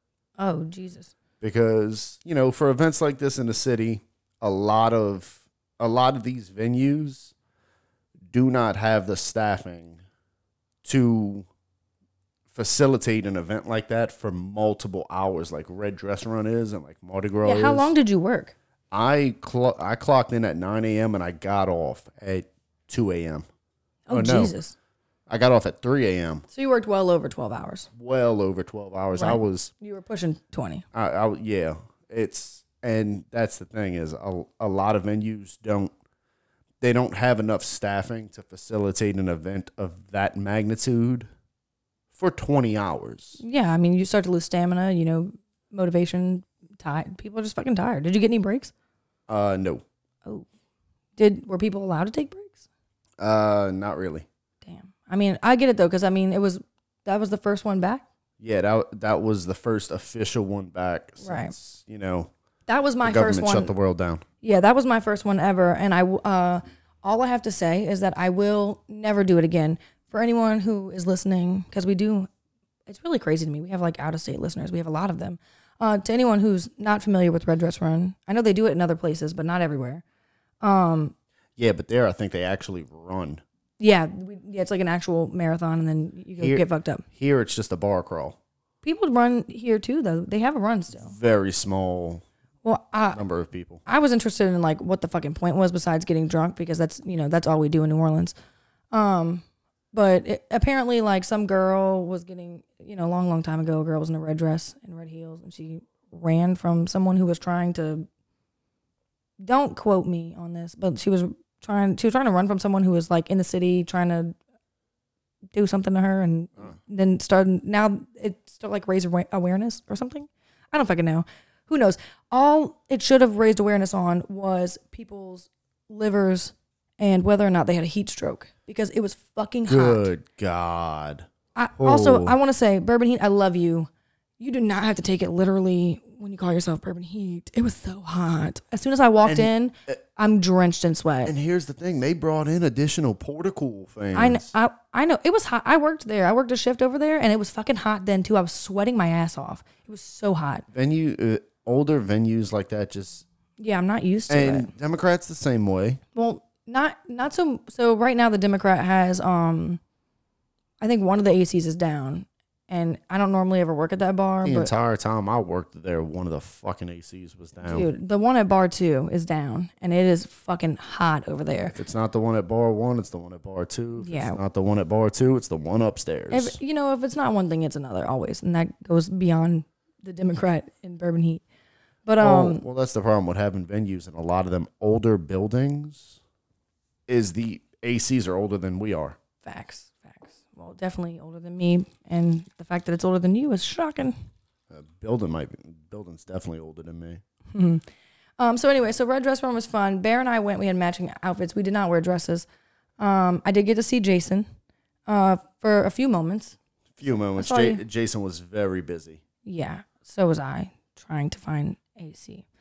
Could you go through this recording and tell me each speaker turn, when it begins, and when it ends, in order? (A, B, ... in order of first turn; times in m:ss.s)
0:00.4-0:01.1 A
0:01.4-0:07.3 B
0:08.3-0:10.0 B
0:10.8-0:11.5 B
0:12.5-0:17.9 B
0:17.4-0:18.5 A
0:18.9-0:23.4 B
0:24.1-0:24.7 A
0:24.1-0:24.5 B
0:25.3-0:26.4 B
0:26.5-0:27.9 A
0:28.0-0:29.7 B
0:29.1-0:30.8 A
0:30.9-0:35.9 B
0:36.8-0:41.3 B
0:42.1-0:43.4 B
0:43.4-0:48.7 A
0:49.3-0:49.8 B
0:51.2-0:52.6 A
0:53.2-0:54.2 B
0:54.6-0:58.0 A
0:58.4-1:02.3 B
1:01.2-1:01.5 A
1:02.7-1:03.7 A
1:03.0-1:04.2 B
1:04.4-1:12.3 A
1:12.9-1:20.0 A
1:20.6-1:21.1 A
1:21.6-1:23.4 B
1:23.8-1:27.0 A
1:26.4-1:28.4 B
1:28.8-1:31.1 A
1:31.0-1:32.2 B
1:32.6-1:33.2 A
1:33.1-1:33.8 B
1:33.8-1:38.4 A
1:38.9-1:48.1 A
1:49.4-1:54.4 A
1:55.5-2:10.1 A
2:09.7-2:11.3 B
2:11.5-2:13.9 A
2:11.8-2:12.4 B
2:14.4-2:21.3 A
2:19.2-2:20.0 B
2:21.2-2:24.5 B
2:24.1-2:30.6 A
2:30.7-2:33.2 B
2:33.6-2:34.7 A
2:34.3-2:36.0 B
2:36.1-2:39.8 A
2:40.8-2:44.7 A
2:44.4-2:47.9 B
2:47.6-2:51.7 A
2:51.7-2:56.6 B
2:54.0-2:54.4 A
2:56.3-3:01.4 A
3:02.0-3:02.6 A
3:02.2-3:06.2 B
3:07.1-3:09.2 B
3:09.4-3:14.1 A
3:14.7-3:17.2 B
3:17.5-3:17.8 A
3:18.4-3:22.4 A
3:23.0-3:24.4 A
3:25.1-3:26.6 A
3:27.0-3:29.2 B
3:27.1-3:27.8 A
3:29.4-3:32.4 A